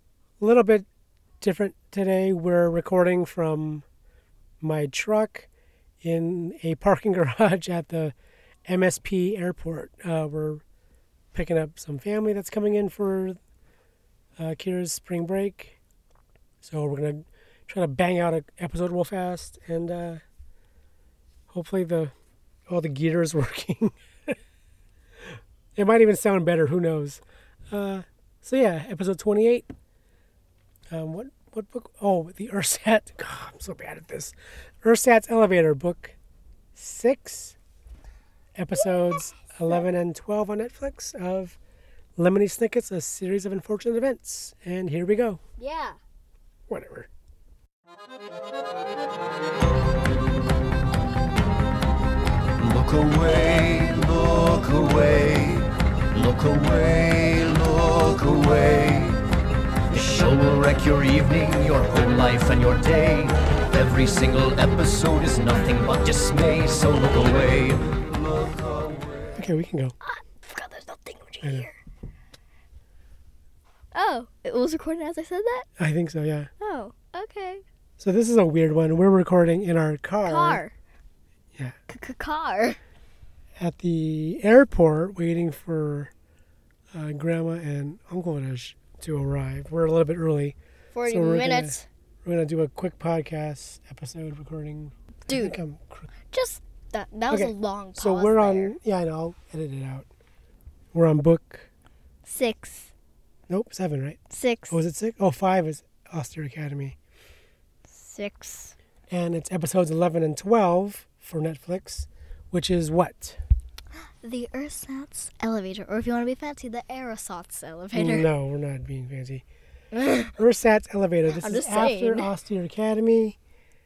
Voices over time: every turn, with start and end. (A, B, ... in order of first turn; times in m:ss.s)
0:00.4-0:00.8 A
0:01.4-0:03.8 A
0:04.6-0:05.5 A
0:06.0-0:08.1 A
0:08.7-0:10.6 A
0:11.3-0:13.4 A
0:14.4-0:15.8 A
0:16.6-0:20.2 A
0:21.5-0:22.1 A
0:22.7-0:24.4 A
0:25.8-0:29.7 A
0:30.9-0:36.2 A
0:36.7-0:37.6 A
0:38.6-0:41.6 A
0:42.2-0:45.4 A
0:45.6-0:46.0 B
0:46.7-0:47.1 A
0:52.6-0:59.2 C
0:59.9-1:08.0 C
1:09.3-1:10.0 A
1:10.0-1:11.8 B
1:11.4-1:11.7 A
1:13.9-1:15.7 B
1:15.8-1:16.5 A
1:16.6-1:17.6 B
1:18.0-1:20.6 A
1:20.2-1:20.7 B
1:21.9-1:22.8 B
1:23.6-1:26.1 A
1:26.9-1:36.1 A
1:30.9-1:31.8 B
1:35.3-1:35.6 B
1:36.3-1:38.7 B
1:37.3-1:40.1 A
1:40.9-1:41.7 A
1:42.2-1:42.9 B
1:43.5-1:44.2 A
1:44.3-1:44.8 B
1:44.7-1:47.0 A
1:47.9-1:48.8 B
1:49.1-1:53.4 A
1:54.2-1:58.3 B
1:57.9-1:59.4 A
1:59.9-2:00.3 B
2:00.3-2:03.4 A
2:01.4-2:02.3 B